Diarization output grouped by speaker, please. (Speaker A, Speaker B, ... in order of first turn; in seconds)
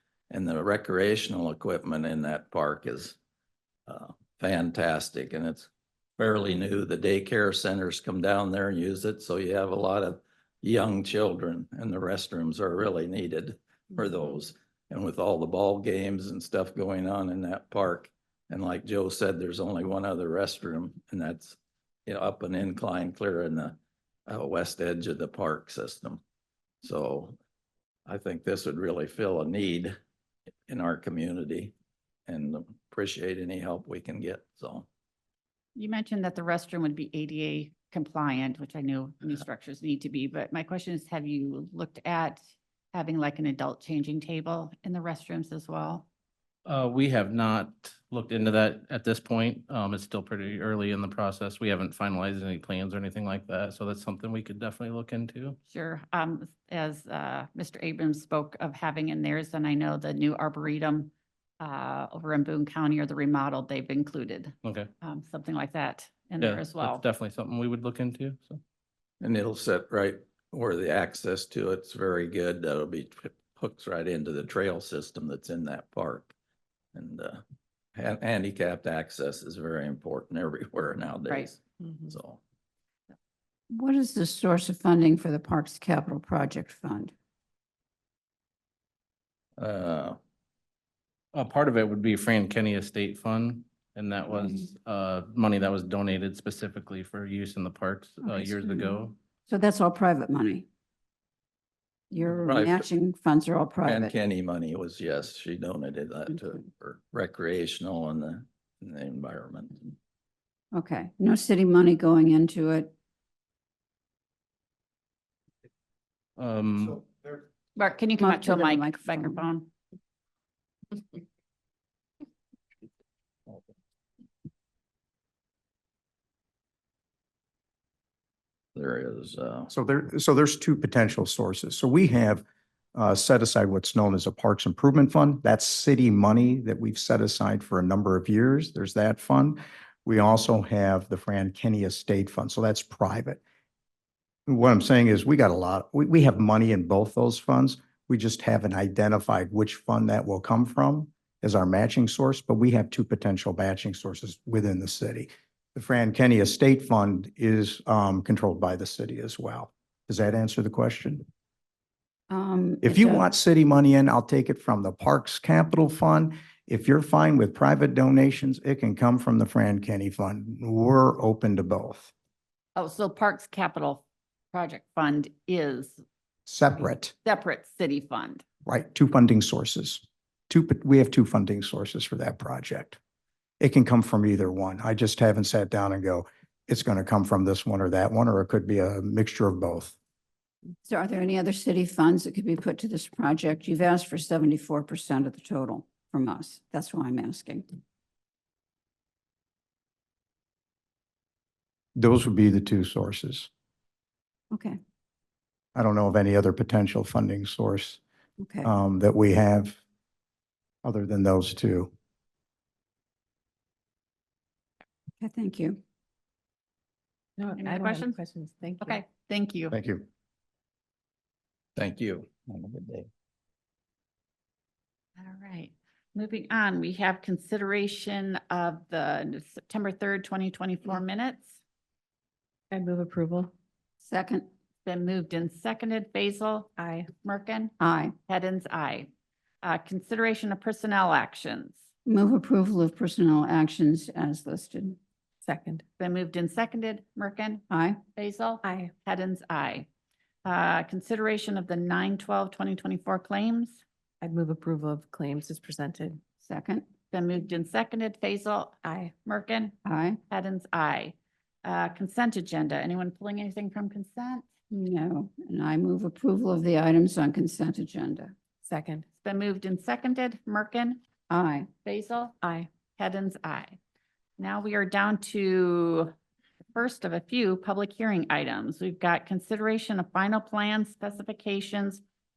Speaker A: 0.3-3.2, 3.9-23.8, 24.3-26.2, 26.8-27.4, 28.1-29.9, 30.7-31.7, 32.3-34.9, 69.2-76.3, 76.9-77.4, 78.0-82.4, 89.6-90.2, 102.3-102.9, 103.8-110.0, 128.7-129.7, 221.8-223.1
Speaker B: 35.8-42.4, 42.9-46.0, 55.7-67.0, 117.8-119.7, 172.8-176.0, 177.2-178.4, 217.6-218.1, 218.8-219.7, 225.2-231.5, 234.8-236.7, 237.2-237.7, 238.2-239.1, 239.6-241.8, 246.0-249.9, 250.4-253.8, 257.1-259.8, 260.3-264.5, 269.2-271.0, 271.8-272.3, 273.0-273.8, 274.4-276.1, 276.7-282.0
Speaker C: 46.6-55.6, 64.6-64.9, 66.7-68.6, 91.3-99.1, 116.4-117.0
Speaker D: 83.7-87.1, 98.2-100.7, 102.1-104.1, 110.7-112.9, 118.2-119.4, 162.3-163.3, 190.8-197.6, 204.5-204.8, 208.4-208.7, 215.2-215.8, 234.0-234.5, 237.8-238.2, 242.1-245.0, 247.7-248.0, 256.4-256.8, 259.8-260.2, 264.7-268.3, 271.3-271.7
Speaker E: 129.7-132.4, 132.9-143.4, 144.5-161.2, 162.8-172.1, 176.5-177.1, 178.7-183.0, 183.6-189.9, 201.9-203.5, 205.7-208.0, 208.6-209.8, 210.8-211.9, 219.7-220.1
Speaker F: 217.4-219.0, 232.7-233.5, 236.8-237.1, 245.4-245.8, 248.6-248.9, 254.2-256.2, 258.8-259.1, 268.6-269.1, 272.4-272.7